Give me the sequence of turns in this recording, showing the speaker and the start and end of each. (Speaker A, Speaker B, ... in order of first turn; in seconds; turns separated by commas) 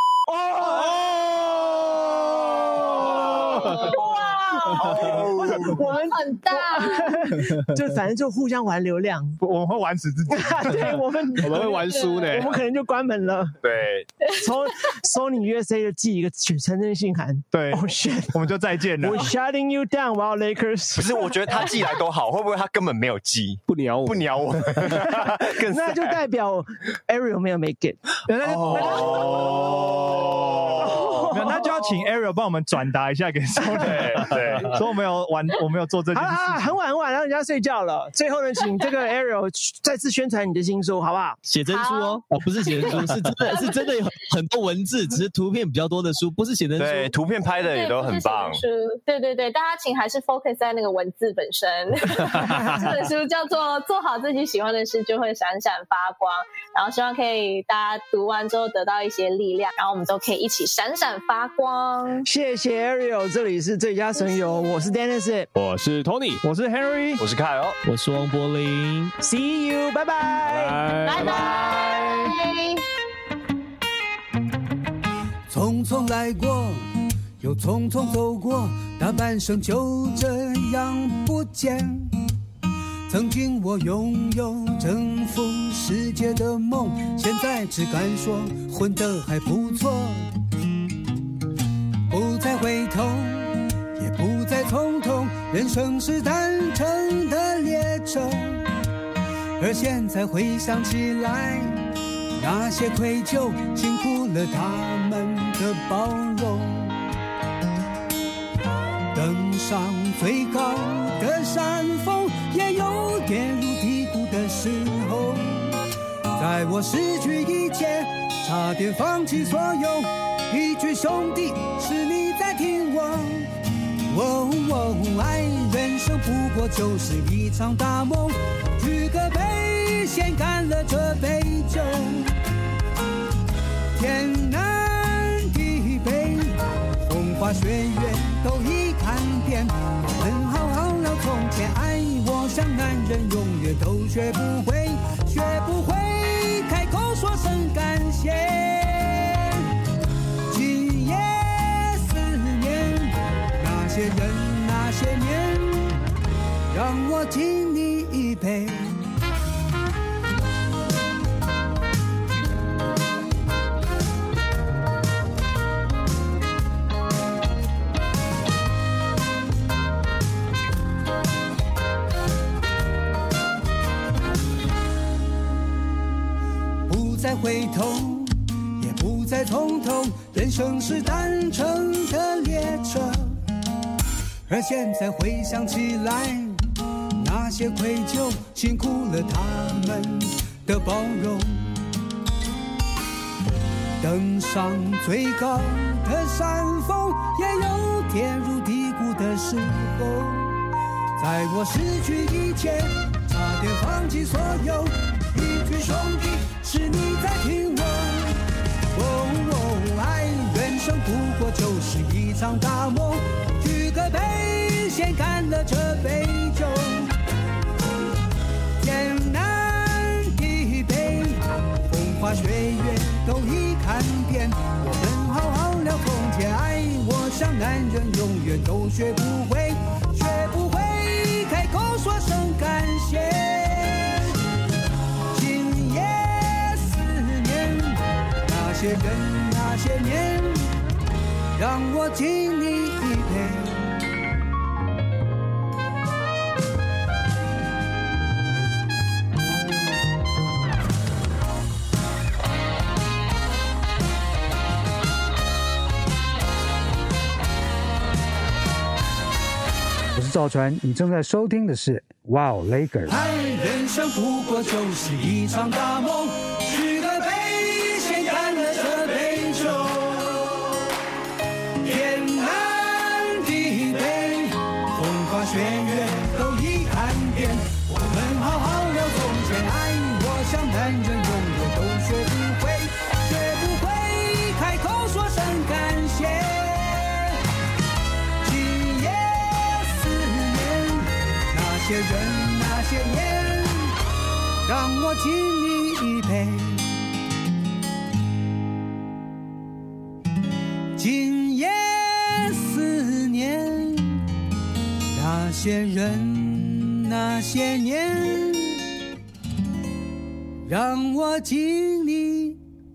Speaker A: 0.3-9.4, Speaker B: 3.6-5.0, Speaker C: 4.8-5.7, Speaker B: 6.1-7.3, Speaker D: 9.4-11.0, Speaker A: 10.3-13.6, Speaker E: 11.4-12.6, Speaker B: 11.9-12.2, Speaker C: 13.6-14.1, Speaker A: 14.3-21.6, Speaker D: 17.5-19.3, Speaker C: 21.0-26.2, Speaker E: 23.7-25.2, Speaker A: 25.6-28.1, Speaker D: 28.3-29.9, Speaker C: 28.6-31.3, Speaker A: 28.8-29.9, Speaker A: 30.7-31.9, Speaker D: 30.7-36.7, Speaker C: 33.8-34.8, Speaker A: 36.1-41.4, Speaker F: 41.5-47.1, Speaker B: 41.7-43.9, Speaker C: 46.8-48.6, Speaker B: 47.5-62.3, Speaker A: 62.2-65.5, Speaker E: 65.5-66.4, Speaker D: 66.4-67.2, Speaker C: 67.2-67.8, Speaker F: 67.8-69.1, Speaker A: 69.2-71.1, Speaker E: 70.4-71.9, Speaker B: 71.1-72.8, Speaker G: 75.5-76.9, Speaker G: 77.4-82.2, Speaker G: 83.1-90.3, Speaker G: 92.1-98.7, Speaker G: 99.6-107.1, Speaker G: 109.1-115.8, Speaker G: 116.4-123.5, Speaker G: 124.1-132.4, Speaker G: 133.9-149.7, Speaker G: 150.5-156.0, Speaker G: 156.7-159.1, Speaker G: 176.9-183.4, Speaker G: 184.5-191.8, Speaker G: 194.0-200.6, Speaker G: 201.2-217.2, Speaker G: 218.8-234.3, Speaker G: 235.3-240.8, Speaker G: 241.6-244.1, Speaker H: 260.1-263.2, Speaker G: 263.1-270.9, Speaker G: 271.8-287.4, Speaker G: 288.4-294.0, Speaker G: 294.6-296.9, Speaker G: 300.9-304.3, Speaker G: 305.1-308.9, Speaker G: 310.7-312.6